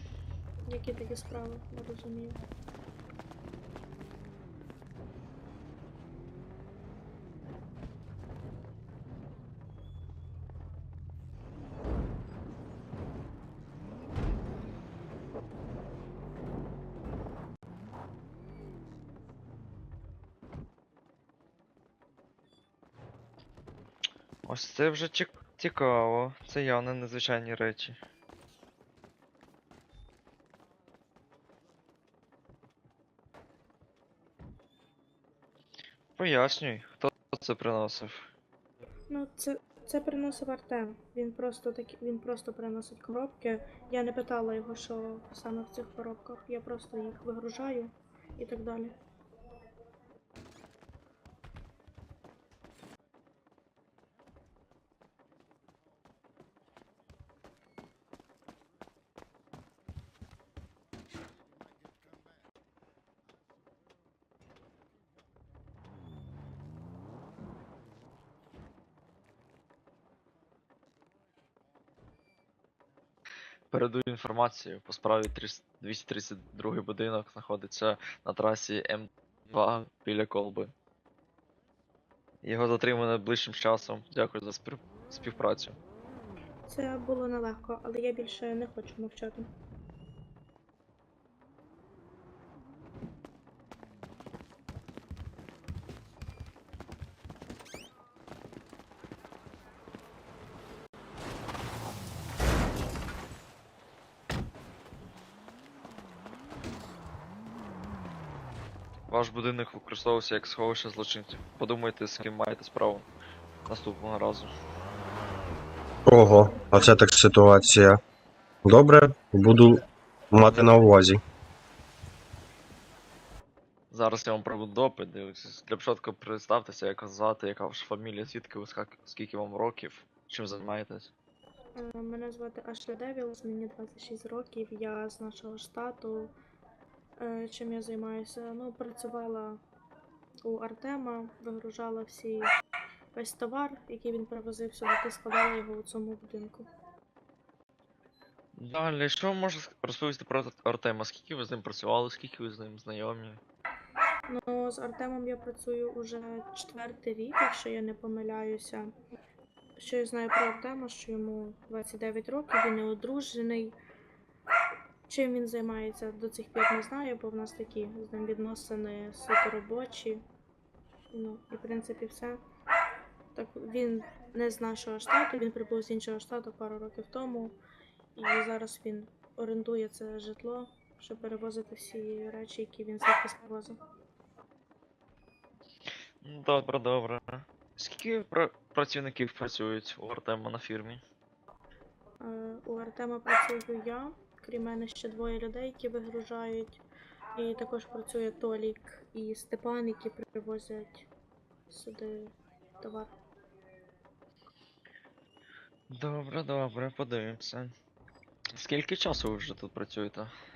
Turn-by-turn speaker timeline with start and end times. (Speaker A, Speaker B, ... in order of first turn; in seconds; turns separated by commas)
Speaker A: 0.7-2.4, Speaker B: 24.4-28.0, Speaker B: 36.2-38.3, Speaker A: 39.1-49.0, Speaker B: 73.7-80.7, Speaker B: 82.4-85.8, Speaker A: 86.7-89.5, Speaker B: 109.1-113.1, Speaker B: 113.7-114.5, Speaker C: 116.1-118.0, Speaker C: 118.7-119.8, Speaker C: 120.3-121.2, Speaker B: 120.4-120.7, Speaker B: 123.9-131.1, Speaker A: 131.8-136.3, Speaker A: 137.2-139.6, Speaker A: 140.4-142.5, Speaker A: 143.1-146.7, Speaker B: 148.6-153.4, Speaker A: 154.3-158.9, Speaker A: 159.8-163.8, Speaker A: 165.1-170.2, Speaker A: 171.1-172.4, Speaker A: 173.3-177.6, Speaker A: 178.2-183.8, Speaker B: 186.2-191.0, Speaker A: 192.2-196.8, Speaker A: 197.3-201.1, Speaker A: 201.7-203.1, Speaker B: 205.9-207.7, Speaker B: 208.5-210.3